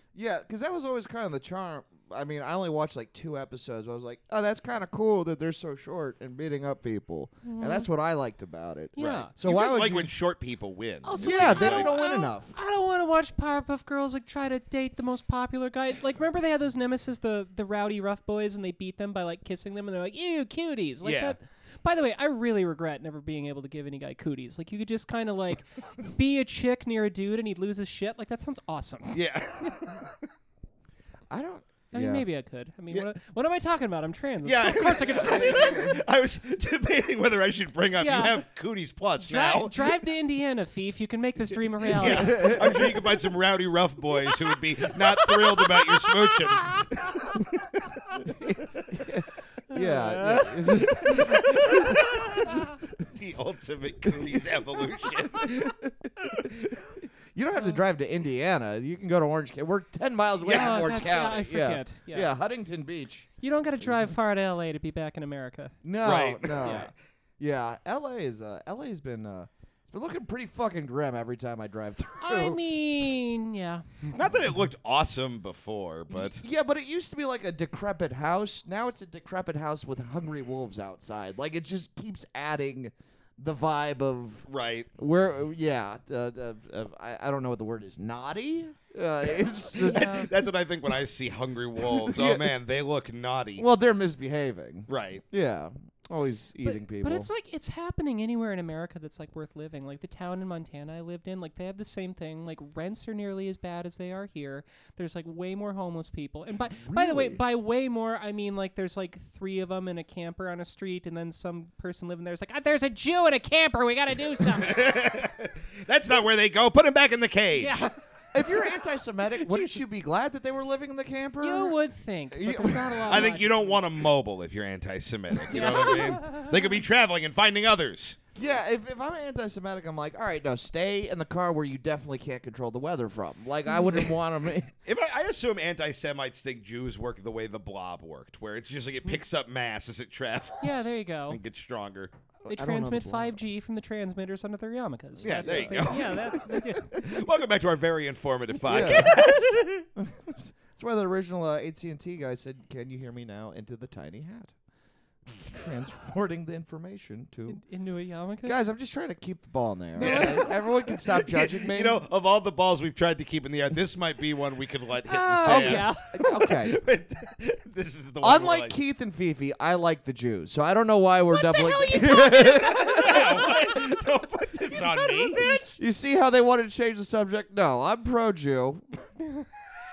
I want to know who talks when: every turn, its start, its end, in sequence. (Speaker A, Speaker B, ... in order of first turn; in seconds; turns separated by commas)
Speaker A: 0.1-10.1, Speaker B: 7.4-7.9, Speaker B: 9.0-9.3, Speaker C: 9.0-12.0, Speaker B: 11.0-30.0, Speaker A: 11.2-12.5, Speaker C: 21.0-21.4, Speaker C: 29.1-30.2, Speaker A: 31.3-32.2, Speaker B: 31.9-36.0, Speaker C: 34.4-39.9, Speaker A: 35.2-36.0, Speaker B: 38.0-38.4, Speaker B: 39.2-43.0, Speaker C: 41.8-47.8, Speaker A: 42.0-43.0, Speaker B: 44.2-47.5, Speaker A: 48.3-52.7, Speaker B: 49.7-52.8, Speaker C: 50.9-56.9, Speaker A: 54.0-54.5, Speaker A: 55.3-56.5, Speaker A: 57.3-63.3, Speaker C: 60.4-60.9, Speaker B: 60.5-62.3, Speaker B: 63.4-65.8, Speaker A: 63.8-64.1, Speaker A: 65.8-72.6, Speaker C: 66.0-66.9, Speaker B: 72.2-74.3, Speaker C: 74.1-76.4, Speaker A: 76.1-90.3, Speaker C: 84.5-84.9, Speaker B: 89.8-90.3, Speaker C: 89.8-93.7, Speaker A: 91.8-92.5, Speaker A: 93.6-97.3, Speaker C: 94.9-95.2, Speaker B: 96.6-115.1, Speaker A: 106.8-107.4, Speaker C: 114.5-117.9, Speaker B: 117.5-117.9, Speaker A: 118.3-121.8, Speaker B: 119.4-119.8, Speaker B: 121.4-123.8, Speaker A: 122.3-123.3, Speaker C: 123.1-128.2, Speaker B: 125.5-126.5, Speaker A: 125.5-126.0, Speaker A: 128.4-134.7, Speaker B: 133.7-134.1, Speaker C: 134.8-142.1, Speaker B: 140.6-141.4, Speaker A: 142.4-143.4, Speaker B: 142.5-147.0, Speaker A: 145.2-146.6, Speaker C: 145.2-149.7, Speaker A: 148.6-149.2, Speaker B: 148.7-149.8, Speaker A: 149.9-154.6, Speaker A: 155.4-157.6, Speaker B: 157.5-158.6, Speaker A: 158.4-162.0, Speaker B: 160.0-160.6, Speaker C: 160.0-168.7, Speaker B: 165.1-166.1, Speaker A: 165.4-166.8, Speaker A: 168.2-173.3, Speaker B: 171.3-173.9, Speaker C: 172.8-175.4, Speaker B: 174.7-175.8, Speaker A: 175.8-178.8